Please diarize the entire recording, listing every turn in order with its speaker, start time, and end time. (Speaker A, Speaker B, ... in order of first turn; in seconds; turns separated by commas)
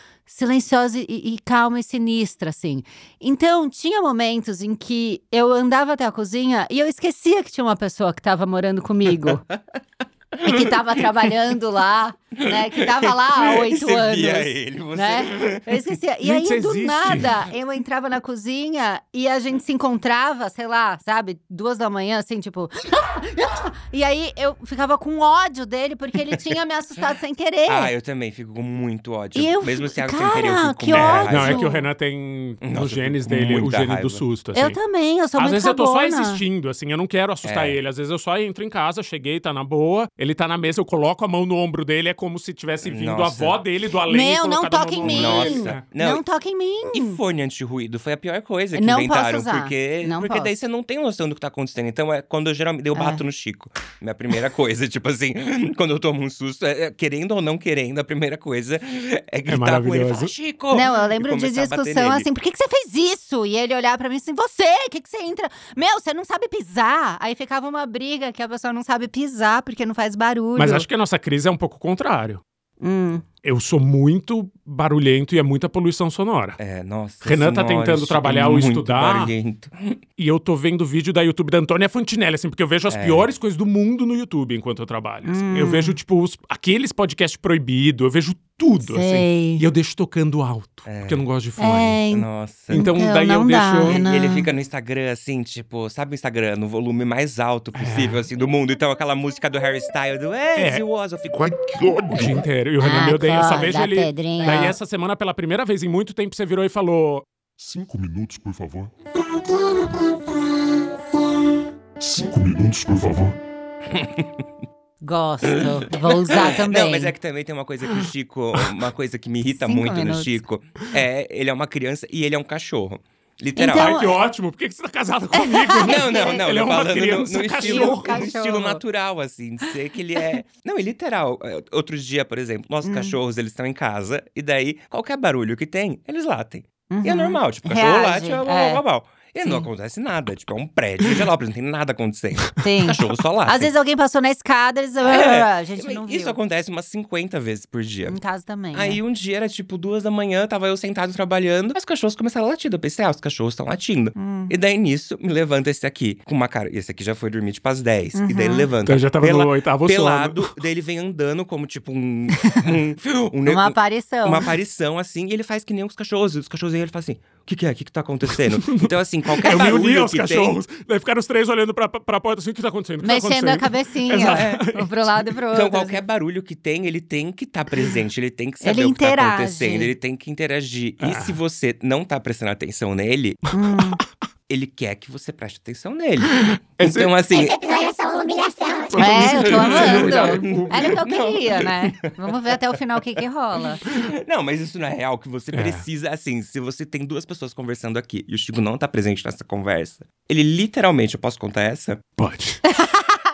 Speaker A: 0.3-9.4, Speaker B: 10.3-11.2, Speaker A: 10.4-27.9, Speaker B: 12.4-15.9, Speaker C: 16.2-17.4, Speaker B: 27.7-31.7, Speaker A: 29.4-31.9, Speaker C: 30.9-34.8, Speaker B: 32.6-34.2, Speaker A: 34.5-36.4, Speaker C: 35.4-45.8, Speaker B: 37.4-37.8, Speaker B: 42.8-43.6, Speaker A: 44.1-47.2, Speaker B: 45.0-46.2, Speaker B: 46.9-62.3, Speaker A: 48.7-50.5, Speaker A: 53.0-53.2, Speaker C: 59.5-60.3, Speaker A: 60.7-70.9, Speaker C: 70.6-72.4, Speaker A: 72.8-73.2, Speaker C: 73.4-76.6, Speaker B: 76.6-80.0, Speaker C: 77.2-79.3, Speaker C: 80.2-92.0, Speaker B: 82.9-83.3, Speaker A: 85.3-86.0, Speaker A: 88.8-89.7, Speaker B: 90.9-91.2, Speaker A: 91.6-94.5, Speaker B: 92.1-92.9, Speaker C: 92.7-94.0, Speaker B: 93.8-101.5, Speaker C: 97.7-98.2, Speaker C: 100.6-100.8, Speaker D: 101.3-102.5, Speaker C: 102.1-107.3, Speaker A: 102.8-104.8, Speaker D: 107.6-108.9, Speaker D: 112.0-113.4, Speaker B: 113.9-114.5, Speaker A: 115.0-117.1, Speaker B: 115.5-124.0, Speaker A: 119.5-120.4, Speaker A: 123.6-124.2, Speaker C: 123.7-128.2, Speaker A: 125.4-126.4, Speaker B: 125.8-143.7, Speaker A: 127.6-128.8, Speaker A: 132.8-133.2, Speaker A: 136.9-138.8, Speaker A: 142.6-146.4, Speaker B: 145.0-148.2, Speaker A: 148.1-149.0, Speaker B: 148.7-170.6, Speaker A: 154.2-154.5, Speaker A: 158.2-158.7, Speaker C: 158.8-160.5, Speaker A: 163.5-164.5, Speaker C: 168.5-174.9, Speaker A: 173.0-176.0, Speaker B: 174.3-174.7, Speaker B: 175.5-183.4, Speaker A: 178.6-179.9, Speaker C: 181.0-181.4, Speaker A: 183.5-184.0, Speaker B: 184.5-187.5, Speaker C: 186.3-187.2, Speaker E: 187.3-189.3, Speaker C: 188.9-190.9, Speaker A: 189.0-193.8, Speaker B: 189.1-192.3, Speaker B: 193.8-202.0, Speaker C: 195.5-195.8, Speaker C: 202.2-202.6, Speaker A: 202.7-203.2